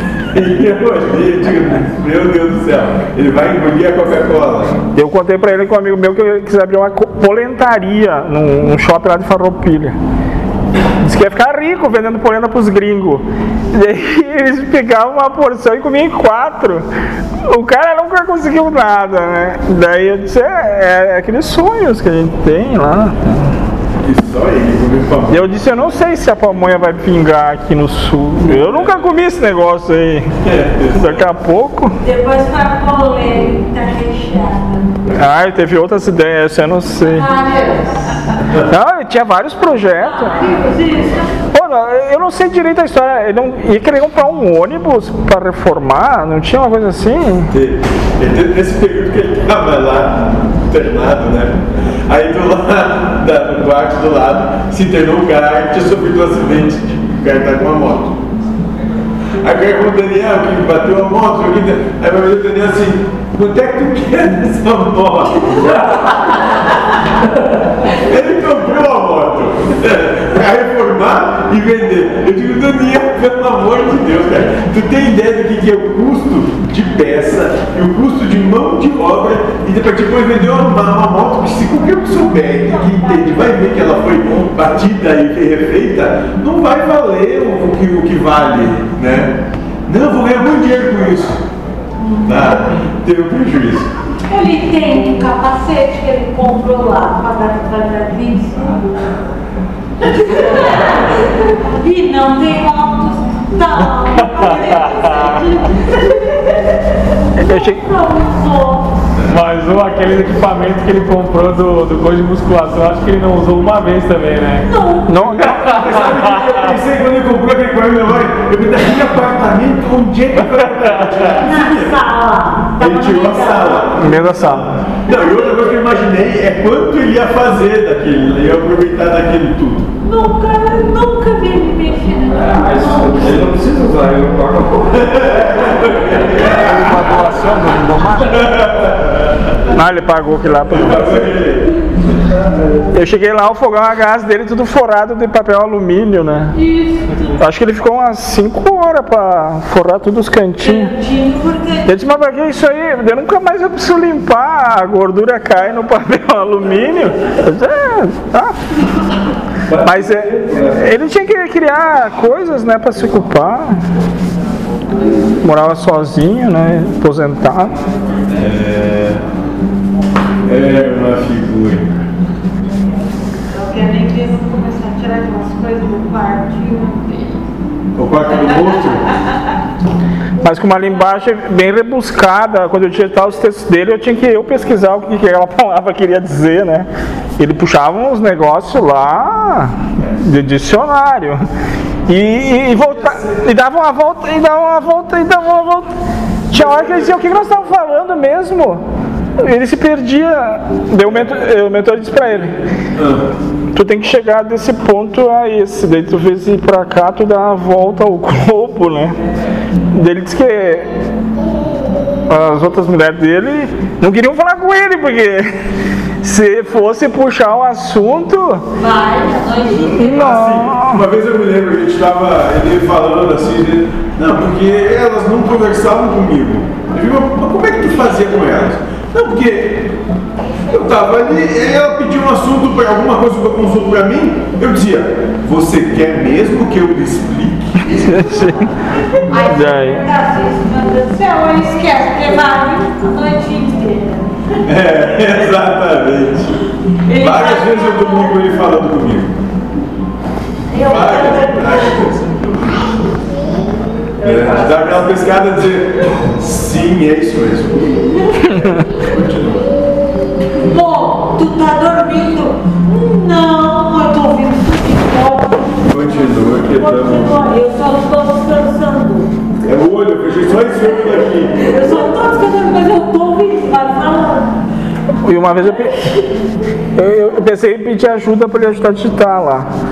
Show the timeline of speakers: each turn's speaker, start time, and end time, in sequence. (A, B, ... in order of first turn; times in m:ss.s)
0:00.3-0:04.8 A
0:04.9-0:10.0 B
0:11.0-0:16.8 B
0:17.5-0:23.5 B
0:24.0-0:25.4 A
0:25.3-0:30.3 B
0:28.5-0:28.8 A
0:30.4-0:31.2 A
0:30.9-0:32.0 B
0:32.0-0:34.8 C
0:35.1-0:37.2 B
0:37.0-0:38.3 C
0:38.7-0:40.4 B
0:40.0-0:41.4 C
0:41.5-0:47.5 B
0:47.5-0:58.2 A
0:59.4-1:05.8 A
1:08.0-1:31.5 A
1:32.0-1:32.6 C
1:32.2-1:33.9 A
1:34.3-1:38.8 C
1:40.0-1:46.8 C
1:44.1-1:45.4 D
1:47.4-1:48.9 C
1:47.4-1:47.8 B
1:49.2-1:54.7 D
1:54.6-1:55.3 C
1:55.1-1:55.7 B
1:55.5-1:56.7 D
1:55.6-2:02.0 A
2:00.6-2:01.2 D
2:01.4-2:04.0 C
2:02.8-2:09.9 A
2:04.0-2:04.7 B
2:05.1-2:05.9 C
2:10.0-2:13.5 C
2:12.4-2:15.3 E
2:14.9-2:16.8 A
2:16.5-2:18.5 F
2:18.3-2:19.5 A
2:19.7-2:21.3 B
2:20.7-2:21.7 A
2:22.9-2:26.6 B
2:26.5-2:27.4 C
2:27.4-2:30.9 B
2:30.6-2:31.9 C
2:31.9-2:38.6 B
2:39.7-2:40.9 E
2:39.8-2:43.8 B
2:45.4-2:47.8 B
2:48.4-2:49.2 A
2:50.5-2:52.0 A
2:53.5-2:57.4 C
2:58.0-2:59.1 A
3:00.4-3:11.4 B
3:12.1-3:15.9 B
3:13.1-3:13.4 A
3:16.5-3:18.8 B
3:19.4-3:22.6 B
3:23.0-3:23.3 A
3:23.7-3:29.2 B
3:29.9-3:30.9 B
3:32.3-3:35.5 B
3:36.2-3:38.6 B
3:38.8-3:40.4 C
3:39.7-3:41.0 B
3:40.2-3:49.9 A
3:50.7-3:58.5 A
3:58.1-3:58.7 B
3:59.3-4:04.3 C
3:59.4-4:00.0 B
4:04.6-4:06.5 A
4:07.1-4:08.6 C
4:07.1-4:09.4 A
4:10.7-4:12.1 C
4:10.8-4:12.8 A
4:14.2-4:19.7 A
4:14.3-4:14.9 C
4:20.6-4:29.3 C
4:25.9-4:27.4 A
4:29.6-4:31.7 A
4:31.6-4:34.6 C
4:35.2-4:36.0 B
4:37.0-4:39.7 B